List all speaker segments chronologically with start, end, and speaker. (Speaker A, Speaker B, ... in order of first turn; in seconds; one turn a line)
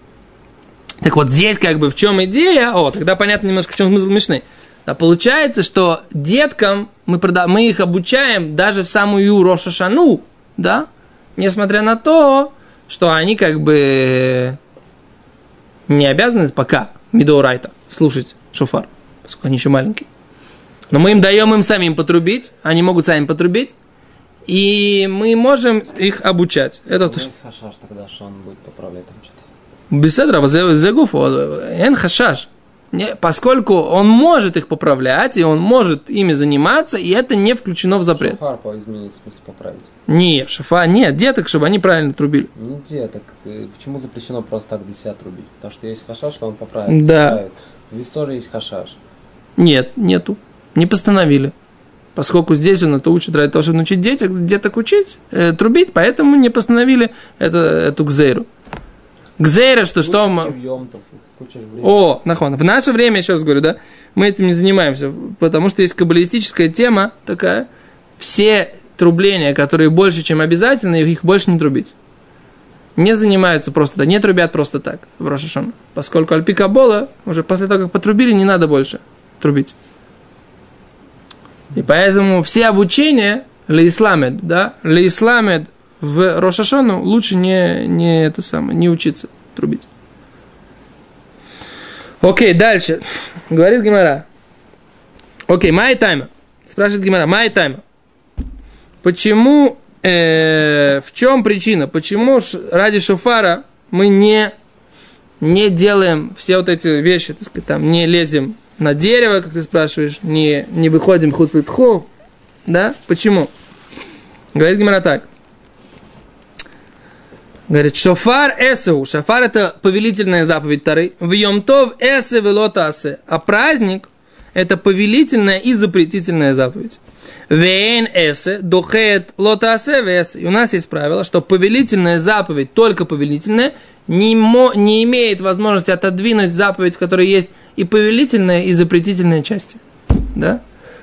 Speaker A: 1.0-14.6
Speaker A: 15.9-20.1
Speaker A: 20.9-23.7
Speaker A: 24.5-27.3
Speaker B: 26.9-29.4
Speaker A: 29.9-38.4
Speaker B: 38.1-39.9
Speaker A: 40.1-42.5
Speaker B: 42.5-49.0
Speaker A: 46.9-47.4
Speaker A: 49.6-51.5
Speaker A: 52.1-58.5
Speaker A: 59.4-60.5
Speaker B: 60.0-62.2
Speaker A: 61.8-67.7
Speaker A: 68.2-71.9
Speaker A: 73.0-79.7
Speaker A: 81.7-89.9
Speaker A: 92.2-94.2
Speaker A: 95.5-97.8
Speaker A: 99.0-104.5
Speaker A: 105.4-112.1
Speaker A: 112.7-113.5
Speaker A: 114.5-115.3
Speaker A: 117.7-139.8
Speaker A: 140.3-140.6